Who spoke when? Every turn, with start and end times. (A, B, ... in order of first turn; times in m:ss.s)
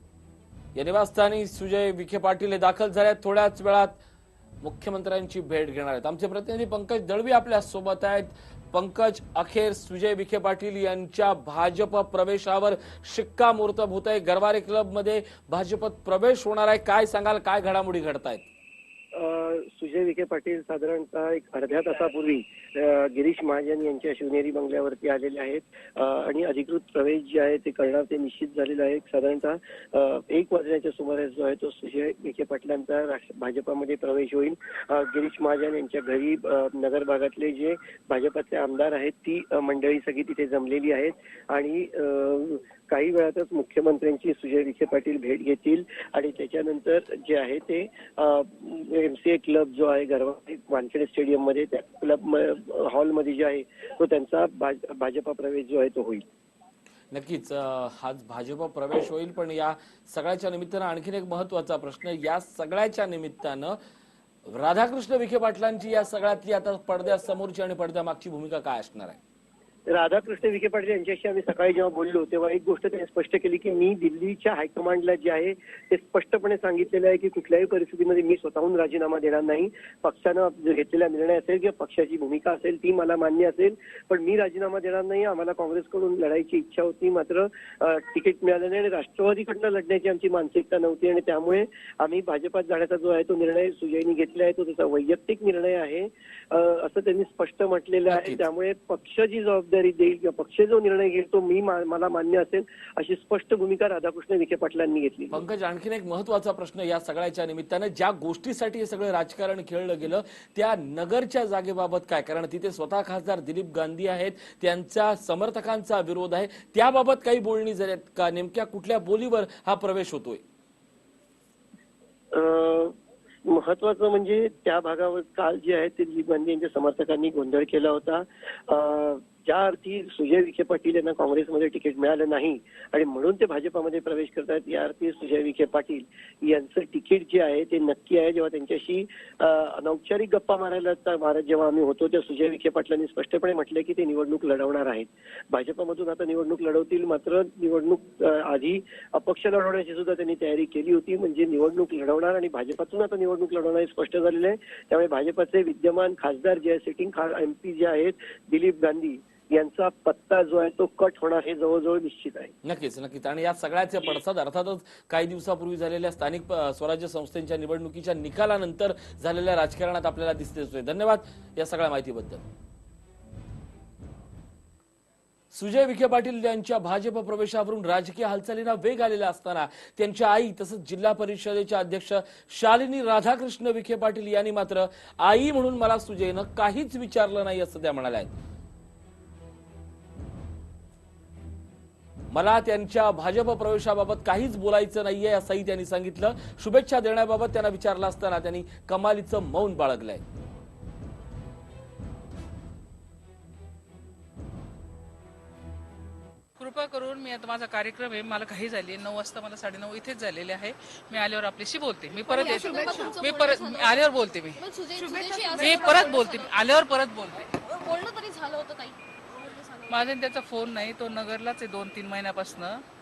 0:00.8-0:04.0 A
0:04.6-0:18.5 A
0:19.1-0:56.2 B
0:57.1-1:03.8 A
1:04.5-1:09.2 A
1:09.9-1:45.4 B
1:38.1-1:38.5 A
1:45.3-2:00.4 A
2:02.3-2:03.0 B
2:03.5-2:42.5 B
2:42.6-2:52.4 A
2:55.5-3:08.3 A
3:12.3-3:20.2 A
3:26.6-3:34.6 C
3:32.2-3:36.6 D
3:35.6-3:37.5 C
3:37.6-3:40.0 D
3:39.9-3:42.8 C